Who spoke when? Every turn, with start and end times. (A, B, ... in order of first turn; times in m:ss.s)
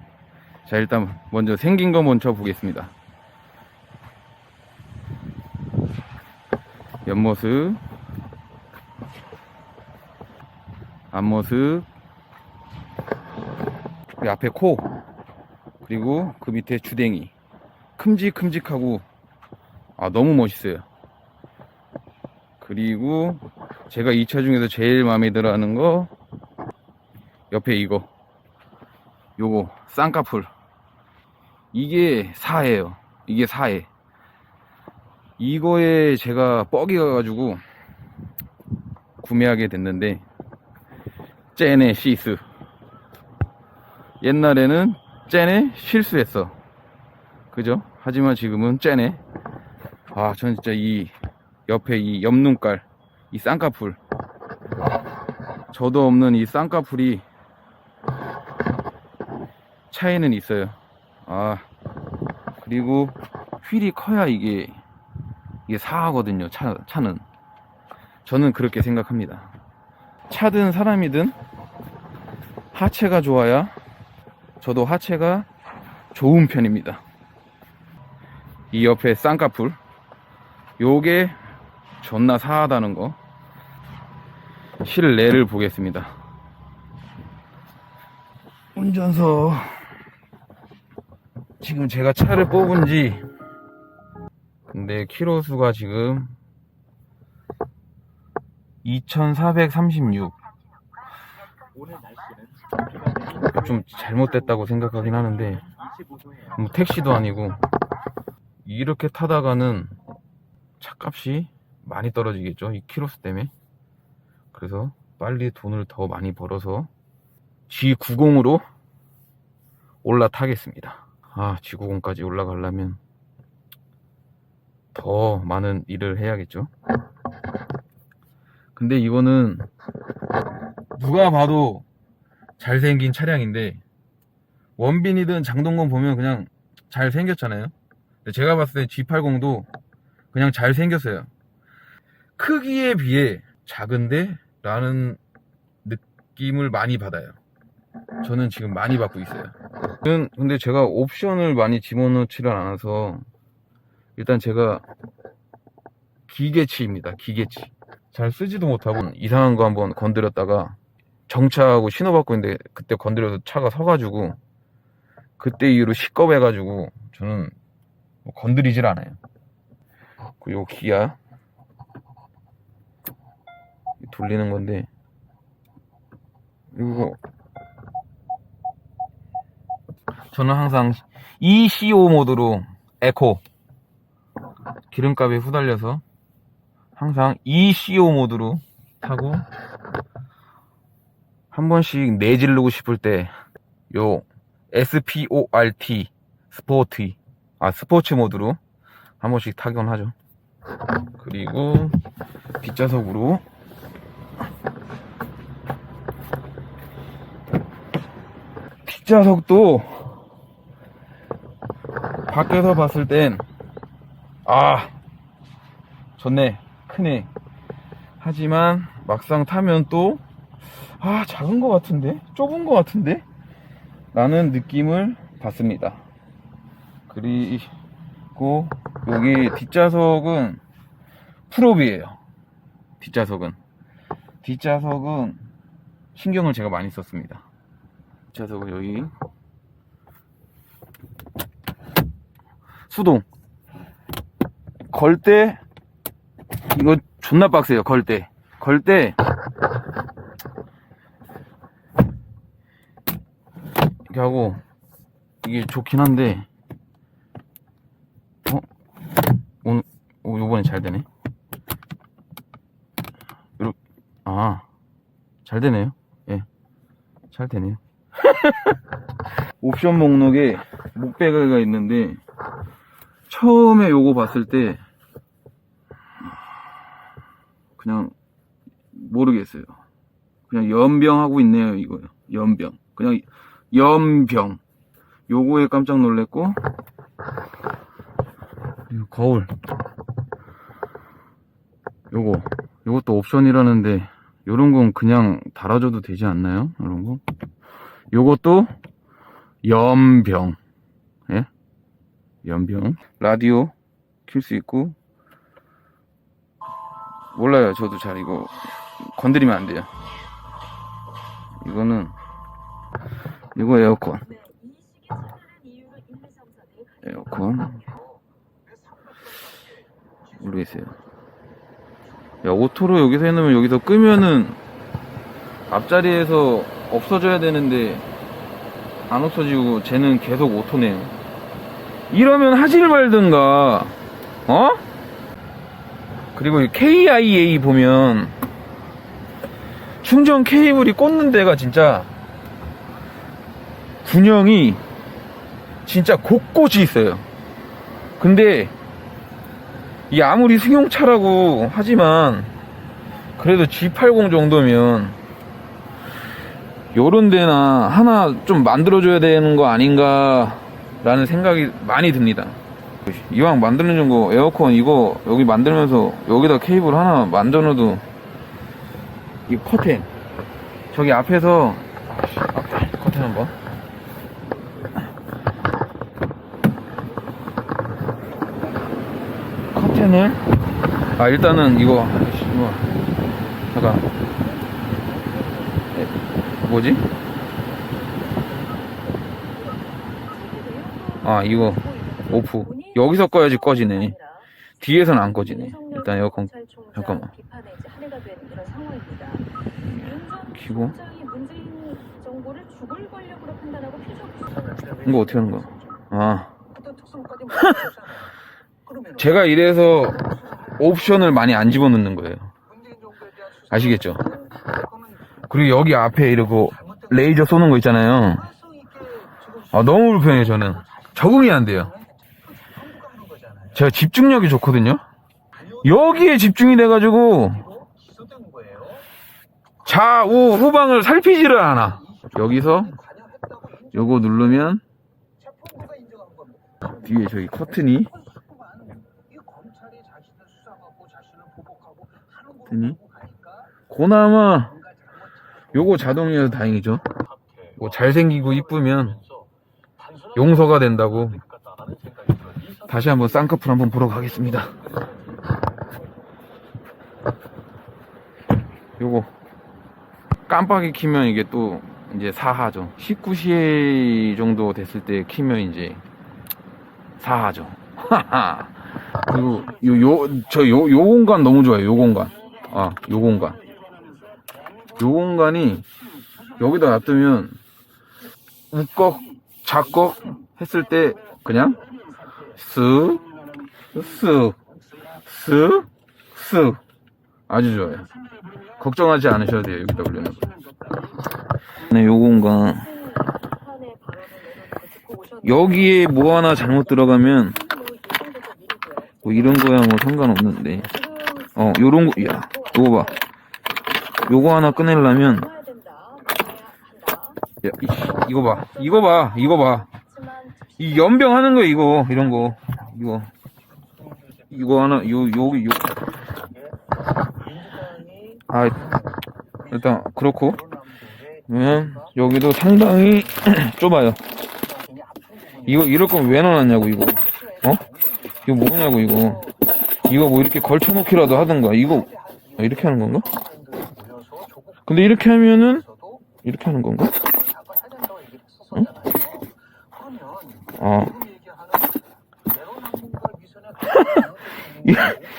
0:00.6-0:02.9 A
0:07.0-0:07.8 A
0:11.1-0:11.9 A
0:14.2-0:14.9 A
0:15.8-0:17.3 A
0:18.0-0:19.0 A
0:20.0-0:20.9 A
0:22.6-0:26.1 A
0:27.5-0:28.1 A
0:29.4-0:30.5 A
0:31.7-0:33.9 A
0:35.4-0:37.6 A
0:39.2-0:40.2 A
0:41.6-0:42.4 A
0:44.2-0:46.6 A
0:47.5-0:49.2 A
0:50.1-0:51.1 A
0:51.7-0:54.0 A
0:55.7-0:57.2 A
0:59.9-1:01.7 A
1:02.6-1:04.8 A
1:05.7-1:07.2 A
1:08.2-1:09.5 A
1:10.3-1:11.4 A
1:12.7-1:13.7 A
1:14.6-1:15.5 A
1:16.1-1:17.0 A
1:18.7-1:19.8 A
1:20.8-1:21.4 A
1:22.0-1:23.2 A
1:24.8-1:26.1 A
1:28.7-1:29.9 A
1:31.6-1:33.2 A
1:34.7-1:36.3 A
1:38.8-1:40.4 A
1:43.3-1:45.7 A
1:46.4-1:47.6 A
1:48.6-1:50.0 A
1:50.8-1:53.5 A
1:54.5-1:56.9 A
1:57.7-1:58.6 A
2:00.0-2:03.0 A
2:04.9-2:06.7 A
2:08.8-2:09.7 A
2:10.9-2:11.8 A
2:12.6-2:13.8 A
2:14.8-2:17.7 A
2:18.2-2:19.7 A
2:20.3-2:21.3 A
2:22.4-2:25.2 A
2:25.8-2:27.4 A
2:28.2-2:33.2 A
2:34.2-2:34.8 A
2:36.3-2:40.8 A
2:41.3-2:44.4 A
2:45.4-2:47.5 A
2:48.2-2:49.2 A
2:50.4-2:51.2 A
2:54.0-2:54.9 A
2:56.7-2:57.2 A
3:00.3-3:03.4 A
3:04.9-3:06.0 A
3:07.0-3:09.5 A
3:11.5-3:13.3 A
3:13.9-3:18.6 A
3:19.2-3:20.1 A
3:21.2-3:22.0 A
3:22.6-3:23.4 A
3:28.8-3:30.2 A
3:32.3-3:33.4 A
3:34.4-3:35.0 A
3:36.2-3:37.3 A
3:38.2-3:40.2 A
3:41.0-3:43.2 A
3:44.1-3:46.0 A
3:47.1-3:47.7 A
3:48.3-3:50.6 A
3:51.5-3:52.2 A
3:53.0-3:53.6 A
3:54.4-3:55.4 A
3:56.2-3:57.4 A
3:58.3-3:59.1 A
4:02.9-4:03.2 A
4:04.9-4:05.6 A
4:06.7-4:09.2 A
4:14.1-4:14.6 A
4:15.4-4:16.5 A
4:19.6-4:21.1 A
4:23.6-4:24.6 A
4:25.4-4:26.5 A
4:27.3-4:28.8 A
4:29.6-4:32.2 A
4:33.3-4:34.8 A
4:37.8-4:38.1 A
4:38.9-4:39.8 A
4:40.5-4:44.6 A
4:45.3-4:46.6 A
4:48.9-4:49.5 A
4:52.1-4:57.2 A
4:58.1-4:58.7 A
4:59.6-5:00.6 A
5:02.4-5:03.7 A
5:04.3-5:05.0 A
5:07.3-5:09.9 A
5:11.6-5:12.2 A
5:13.6-5:14.3 A
5:14.6-5:16.7 B
5:17.0-5:17.9 A
5:20.4-5:21.0 A
5:22.4-5:24.6 A
5:25.7-5:28.1 A
5:29.1-5:31.1 A
5:32.1-5:34.0 A
5:34.5-5:34.8 A
5:36.4-5:38.4 A
5:40.0-5:42.1 A
5:44.0-5:44.8 A
5:45.9-5:47.3 A
5:48.2-5:48.7 A
5:50.1-5:52.5 A
5:53.4-5:55.2 A
5:56.9-6:08.0 A
6:09.5-6:10.1 A
6:10.9-6:13.5 A
6:19.7-6:20.6 A
6:21.2-6:22.9 A
6:23.7-6:24.1 A
6:25.1-6:25.6 B
6:25.9-6:27.1 A
6:27.9-6:31.0 B
6:31.2-6:34.2 A
6:34.8-6:37.3 A
6:37.7-6:39.4 B
6:39.8-6:41.0 A
6:41.2-6:44.7 B
6:45.0-6:46.5 A
6:47.0-6:47.8 B
6:47.6-6:47.9 A
6:49.2-6:52.5 A
6:53.7-6:54.4 A
6:55.5-6:58.5 A
6:58.9-6:59.2 B
6:59.7-7:02.0 A
7:02.7-7:03.4 B
7:03.7-7:05.0 A
7:05.8-7:07.8 A
7:08.2-7:08.8 B
7:09.8-7:13.0 A
7:13.9-7:14.8 A
7:15.7-7:16.5 B
7:17.0-7:18.1 A
7:19.5-7:21.9 B
7:22.7-7:23.0 A
7:23.9-7:24.8 A
7:25.7-7:27.1 A
7:27.8-7:29.2 A
7:30.3-7:31.5 A
7:32.8-7:34.8 A
7:39.0-7:39.3 A
7:40.5-7:46.0 A
7:47.2-7:53.6 A
7:55.0-7:55.9 A
7:56.6-7:57.6 A
7:58.7-8:01.8 A
8:02.5-8:03.3 A
8:03.9-8:04.6 A
8:05.2-8:06.8 A
8:07.5-8:08.1 A
8:08.8-8:10.5 A
8:11.8-8:13.0 A
8:13.4-8:15.4 B
8:15.4-8:17.6 A
8:17.7-8:19.0 B
8:19.2-8:21.0 A
8:21.6-8:23.2 A
8:24.3-8:25.5 A
8:25.7-8:27.4 B
8:27.6-8:29.9 A
8:30.8-8:33.3 A
8:34.5-8:36.0 A
8:37.8-8:38.1 B
8:38.4-8:38.9 A
8:39.7-8:40.7 A
8:41.5-8:44.2 A
8:45.6-8:47.8 A
8:48.4-8:49.5 A
8:50.0-8:53.3 A
8:53.8-8:54.4 B
8:54.9-8:55.9 A
8:56.4-8:57.2 A
8:57.9-8:58.4 B
9:00.1-9:00.4 B
9:00.7-9:01.2 A
9:02.8-9:03.6 B
9:03.9-9:05.2 A